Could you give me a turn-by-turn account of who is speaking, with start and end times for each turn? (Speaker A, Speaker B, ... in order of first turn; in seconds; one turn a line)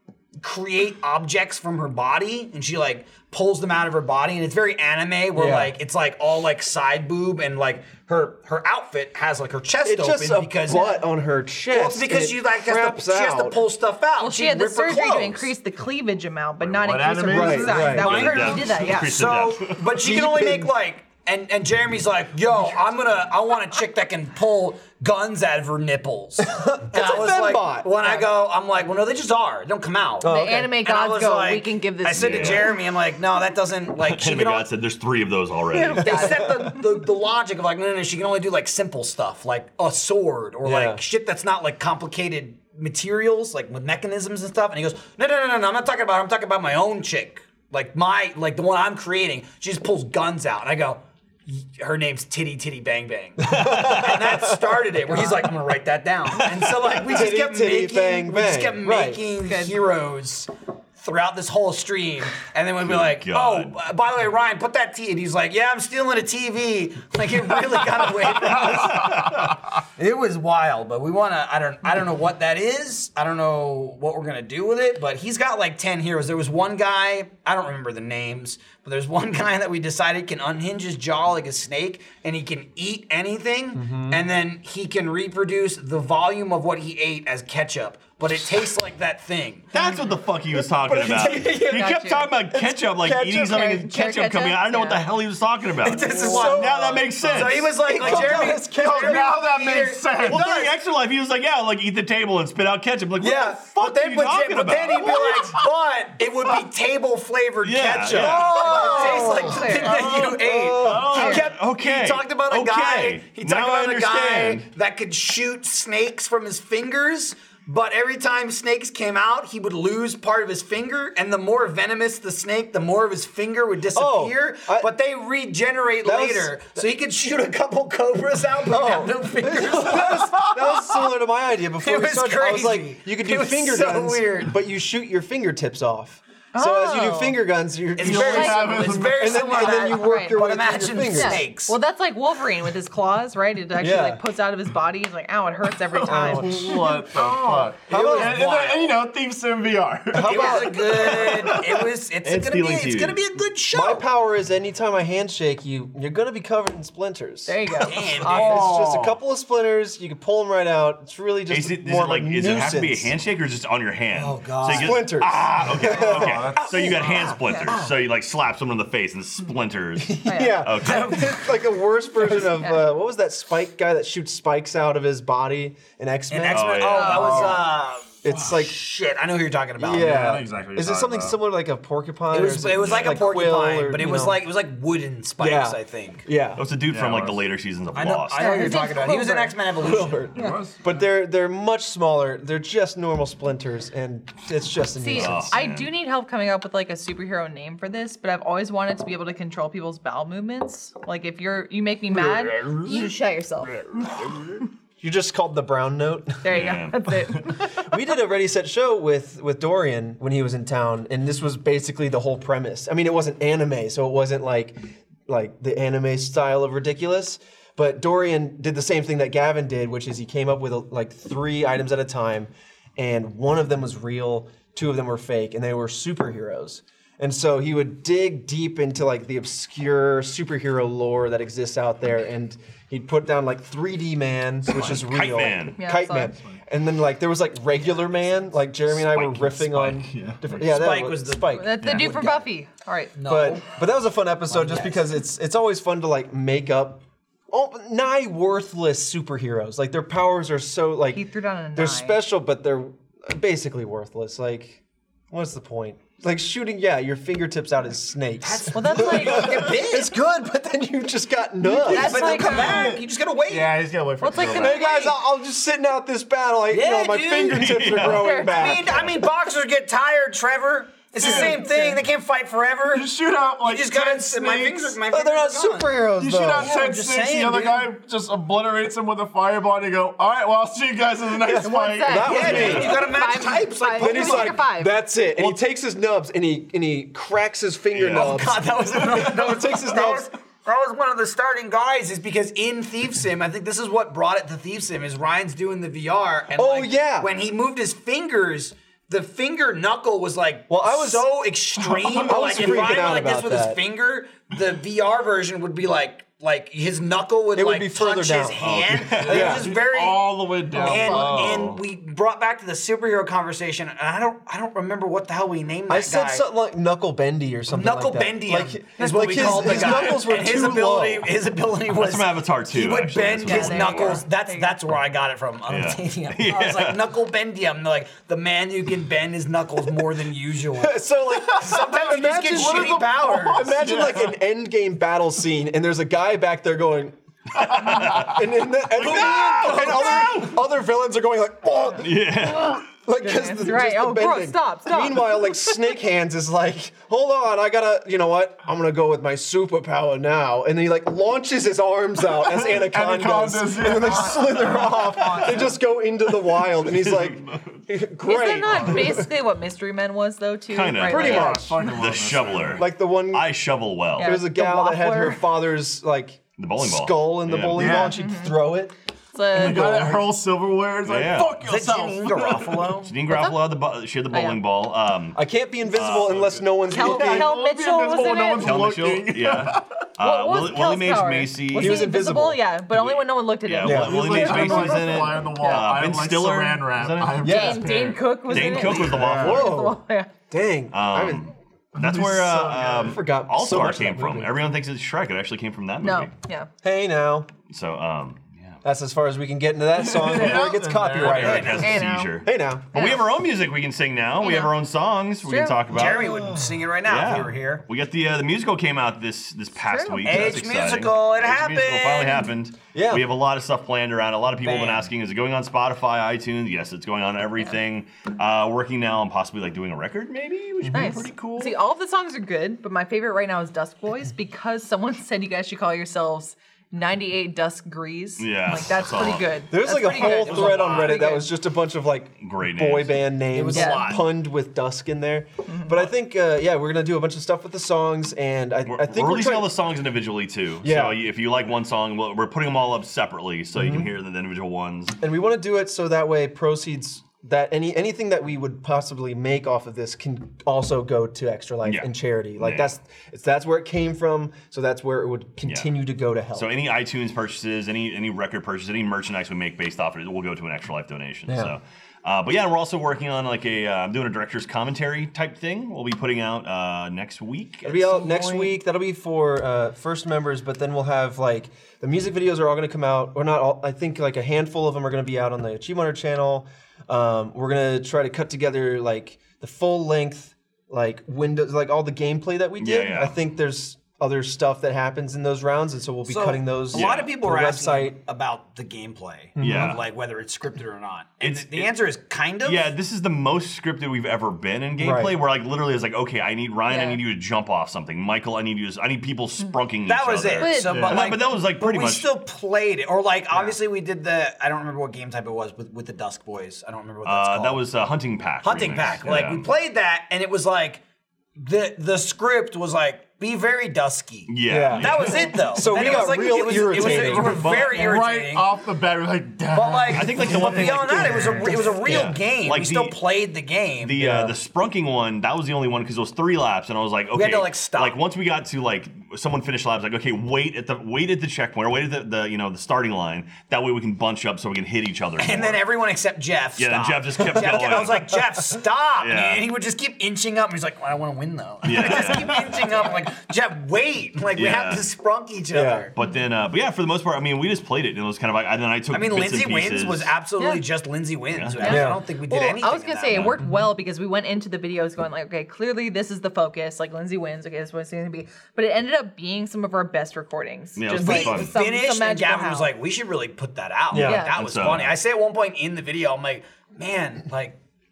Speaker A: 0.4-11.0
Speaker B: 5.3-5.8
Speaker B: 9.8-13.7
Speaker C: 10.7-11.0
Speaker A: 11.7-15.5
Speaker C: 14.2-19.1
Speaker D: 16.6-18.1
Speaker B: 17.2-18.3
Speaker E: 18.0-19.8
Speaker A: 18.0-34.7
Speaker B: 19.9-20.7
Speaker B: 26.4-27.9
Speaker C: 28.0-28.3
Speaker B: 30.2-30.8
Speaker C: 30.2-32.7
Speaker E: 32.1-32.8
Speaker E: 34.0-36.5
Speaker C: 35.7-36.8
Speaker A: 36.0-69.3
Speaker B: 40.6-41.0
Speaker B: 53.5-54.6
Speaker E: 53.6-54.1
Speaker C: 55.1-55.5
Speaker B: 56.5-59.2
Speaker C: 59.4-59.8
Speaker E: 62.8-63.7
Speaker E: 69.0-69.4
Speaker A: 70.0-89.7
Speaker B: 83.7-84.3
Speaker C: 89.7-90.2
Speaker E: 89.7-98.1
Speaker B: 90.6-91.9
Speaker C: 91.3-92.4
Speaker B: 92.5-93.7
Speaker C: 93.3-95.0
Speaker A: 95.8-100.7
Speaker B: 96.0-99.3
Speaker D: 98.0-100.6
Speaker E: 100.3-105.3
Speaker A: 103.2-130.8
Speaker E: 107.6-108.5
Speaker B: 108.1-111.4
Speaker C: 108.4-110.0
Speaker D: 109.8-111.4
Speaker E: 111.1-114.7
Speaker B: 123.9-124.9
Speaker B: 126.0-126.8
Speaker B: 128.7-141.4
Speaker A: 131.8-134.5
Speaker C: 136.5-137.4
Speaker A: 138.0-141.8
Speaker D: 138.0-139.3
Speaker C: 138.3-140.4
Speaker C: 141.1-147.7
Speaker B: 143.8-144.2
Speaker D: 145.9-151.9
Speaker B: 146.1-147.1
Speaker B: 147.9-148.6
Speaker A: 147.9-149.0
Speaker B: 150.1-151.2
Speaker A: 150.2-154.1
Speaker E: 152.2-153.2
Speaker B: 153.7-163.1
Speaker C: 157.5-158.2
Speaker A: 157.8-158.8
Speaker D: 158.3-159.1
Speaker E: 161.5-171.3
Speaker A: 164.1-165.0
Speaker B: 164.7-166.6
Speaker D: 165.6-166.9
Speaker C: 165.9-166.1
Speaker A: 166.5-167.4
Speaker C: 167.4-167.7
Speaker B: 170.0-176.8
Speaker C: 170.2-170.7
Speaker C: 172.2-172.8
Speaker A: 176.3-180.2
Speaker E: 176.5-177.6
Speaker C: 177.0-177.6
Speaker B: 178.2-178.8
Speaker B: 179.8-184.4
Speaker D: 180.0-181.4
Speaker A: 182.3-186.3
Speaker E: 182.8-183.3
Speaker B: 185.4-186.6
Speaker E: 186.6-188.7
Speaker D: 186.9-187.4
Speaker A: 187.9-190.3
Speaker C: 188.4-189.6
Speaker B: 189.8-195.6
Speaker D: 190.3-191.1
Speaker C: 195.0-204.1
Speaker E: 195.2-195.9
Speaker D: 202.3-203.0
Speaker D: 203.9-204.6
Speaker B: 205.0-206.6
Speaker C: 206.4-207.9
Speaker E: 206.5-207.2
Speaker B: 207.6-242.0
Speaker E: 234.7-235.8
Speaker C: 235.8-236.3
Speaker E: 238.9-240.7
Speaker A: 240.6-242.5
Speaker C: 241.6-243.2
Speaker E: 241.8-242.1
Speaker A: 243.2-243.8
Speaker B: 243.2-251.2
Speaker A: 244.5-245.2
Speaker C: 251.1-252.2
Speaker B: 251.8-262.6
Speaker A: 258.4-260.1
Speaker C: 258.7-259.9
Speaker A: 261.9-263.9
Speaker C: 261.9-263.0
Speaker D: 262.0-264.9
Speaker C: 264.2-265.2
Speaker B: 264.4-269.1
Speaker A: 266.7-267.8
Speaker E: 267.5-268.3
Speaker C: 268.1-268.8
Speaker A: 268.4-276.0
Speaker D: 271.2-271.7
Speaker B: 271.2-271.9
Speaker C: 271.4-271.9
Speaker D: 272.9-275.0
Speaker B: 275.1-276.8
Speaker D: 276.2-283.0
Speaker A: 276.6-277.9
Speaker B: 281.5-283.0
Speaker C: 281.5-285.0
Speaker A: 282.2-284.6
Speaker B: 284.0-290.3
Speaker E: 288.0-288.4
Speaker A: 288.1-316.5
Speaker D: 289.0-289.3
Speaker B: 296.5-297.3
Speaker B: 300.7-301.3
Speaker D: 301.8-303.2
Speaker B: 302.2-303.8
Speaker B: 307.6-308.6
Speaker E: 308.6-309.6
Speaker D: 309.2-311.8
Speaker B: 309.3-309.7
Speaker C: 310.8-311.3
Speaker B: 315.9-321.3
Speaker A: 317.7-331.0
Speaker C: 319.4-320.0
Speaker E: 321.9-324.2
Speaker C: 323.4-324.8
Speaker E: 325.7-327.1
Speaker B: 330.8-359.3
Speaker A: 331.6-333.7
Speaker D: 331.7-334.4
Speaker D: 337.6-338.3
Speaker A: 339.0-340.5
Speaker E: 339.0-340.3
Speaker E: 342.0-342.8
Speaker C: 343.2-345.8
Speaker D: 352.4-355.8
Speaker C: 353.9-355.4
Speaker E: 357.0-357.3
Speaker D: 357.0-357.6
Speaker C: 358.2-361.6
Speaker E: 360.7-364.4
Speaker B: 361.1-362.0
Speaker D: 361.1-362.9
Speaker B: 362.8-363.5
Speaker C: 364.2-365.4
Speaker B: 364.2-368.9
Speaker E: 366.6-368.0
Speaker D: 367.7-368.2
Speaker C: 368.1-368.6
Speaker C: 369.3-370.0
Speaker D: 369.5-372.9
Speaker B: 369.6-370.3
Speaker E: 371.1-371.6
Speaker A: 371.6-373.1
Speaker E: 373.0-376.6
Speaker C: 373.3-373.6
Speaker C: 374.3-374.6
Speaker B: 375.4-377.6
Speaker D: 376.0-379.9
Speaker C: 376.9-378.9
Speaker E: 378.6-382.1
Speaker C: 380.2-385.9
Speaker B: 381.7-382.6
Speaker E: 382.9-387.5
Speaker B: 383.8-384.4
Speaker D: 383.9-389.7
Speaker B: 387.4-387.9
Speaker C: 387.4-390.3
Speaker E: 388.5-389.7
Speaker B: 389.3-391.5
Speaker E: 390.9-396.3
Speaker D: 392.0-393.2
Speaker B: 392.7-394.6
Speaker C: 396.0-396.7
Speaker B: 396.8-397.5
Speaker E: 397.7-398.4
Speaker B: 398.8-403.1
Speaker D: 400.0-401.9
Speaker E: 401.2-406.4
Speaker A: 401.3-401.9
Speaker C: 401.8-402.4
Speaker C: 402.9-403.2
Speaker C: 404.4-404.7
Speaker C: 405.4-405.8
Speaker A: 405.9-407.8
Speaker B: 406.2-406.8
Speaker E: 407.0-421.7
Speaker C: 409.8-410.5
Speaker A: 410.2-412.5
Speaker B: 412.9-413.3
Speaker A: 414.6-415.1
Speaker B: 420.9-421.1
Speaker C: 420.9-431.5
Speaker E: 428.4-429.5
Speaker B: 429.7-439.8
Speaker A: 430.1-431.3
Speaker E: 432.4-433.4
Speaker A: 433.5-434.2
Speaker C: 433.7-434.2
Speaker C: 435.7-435.9
Speaker E: 438.9-445.2
Speaker B: 440.8-441.2
Speaker B: 443.7-444.1
Speaker B: 445.2-456.7
Speaker E: 451.8-452.9
Speaker E: 455.6-455.9
Speaker E: 456.6-468.7
Speaker B: 461.5-461.8
Speaker B: 467.8-488.2
Speaker E: 482.8-483.4
Speaker A: 486.3-492.9
Speaker E: 486.9-487.3
Speaker B: 489.6-490.0
Speaker E: 489.6-490.0
Speaker E: 491.4-491.9
Speaker E: 492.6-502.3
Speaker B: 495.0-495.4
Speaker C: 496.9-497.2
Speaker A: 500.1-507.8
Speaker C: 500.6-501.2
Speaker D: 500.9-501.3
Speaker E: 507.2-509.7
Speaker A: 508.6-511.0
Speaker A: 511.6-518.7
Speaker E: 514.5-516.2
Speaker B: 514.7-517.8
Speaker D: 516.0-521.6
Speaker E: 517.0-518.1
Speaker A: 519.7-524.2
Speaker E: 520.1-523.2
Speaker B: 520.9-522.4
Speaker E: 524.0-535.8
Speaker B: 524.2-524.6
Speaker A: 527.3-528.2
Speaker A: 535.4-546.1
Speaker E: 536.8-538.4
Speaker E: 539.2-539.7
Speaker E: 541.8-542.8
Speaker C: 542.9-543.3
Speaker E: 544.5-545.1
Speaker B: 545.7-546.1
Speaker E: 546.1-550.3
Speaker A: 549.1-553.5
Speaker C: 550.6-550.8
Speaker E: 551.5-552.0
Speaker C: 551.8-562.9
Speaker B: 551.8-552.2
Speaker E: 553.3-553.6
Speaker E: 561.0-561.8
Speaker A: 561.1-567.8
Speaker B: 564.1-564.5
Speaker E: 564.1-565.2
Speaker C: 564.2-564.6